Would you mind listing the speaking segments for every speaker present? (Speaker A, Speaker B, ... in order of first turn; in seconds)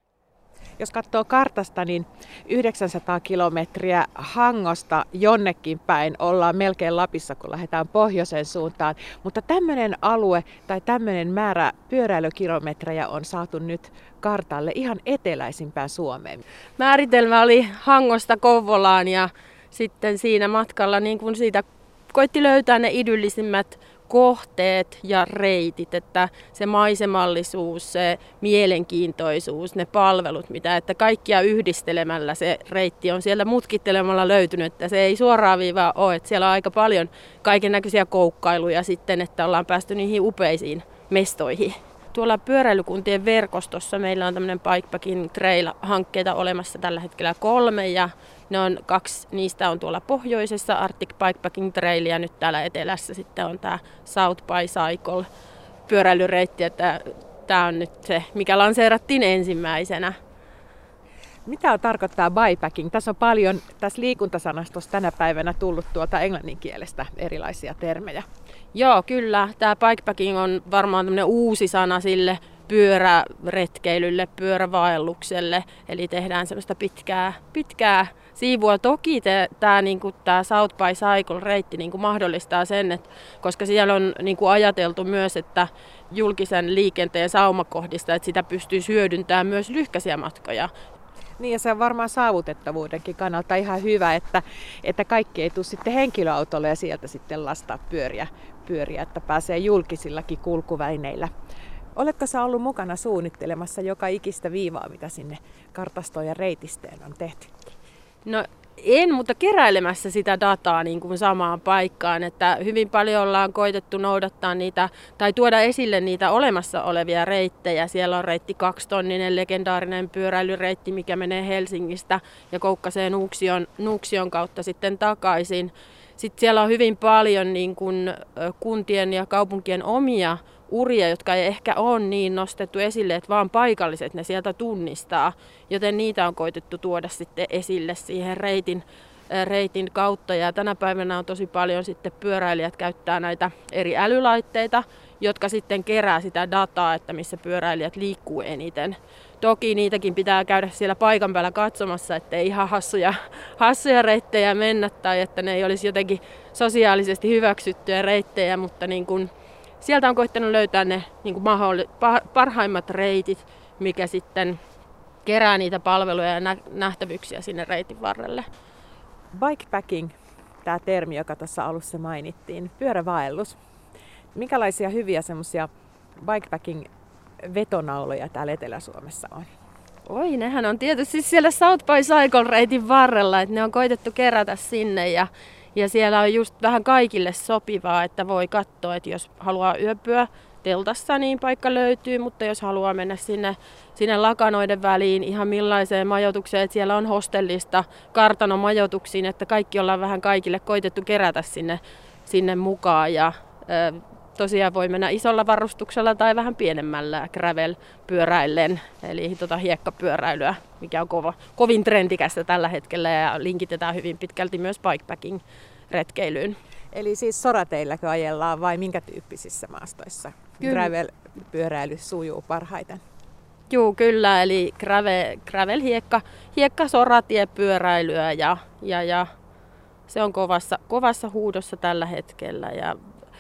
Speaker A: 0.8-16.4, 61.5-68.2, 91.4-101.3, 102.0-107.5, 169.3-170.1, 170.6-173.6, 174.3-175.7, 176.2-176.9, 177.5-179.5, 216.9-223.0
Speaker B: 16.8-55.2, 55.9-60.1, 68.7-90.7, 108.2-159.3, 159.8-164.6, 165.2-168.5, 180.1-216.6, 220.6-220.9, 223.7-229.3, 230.1-233.0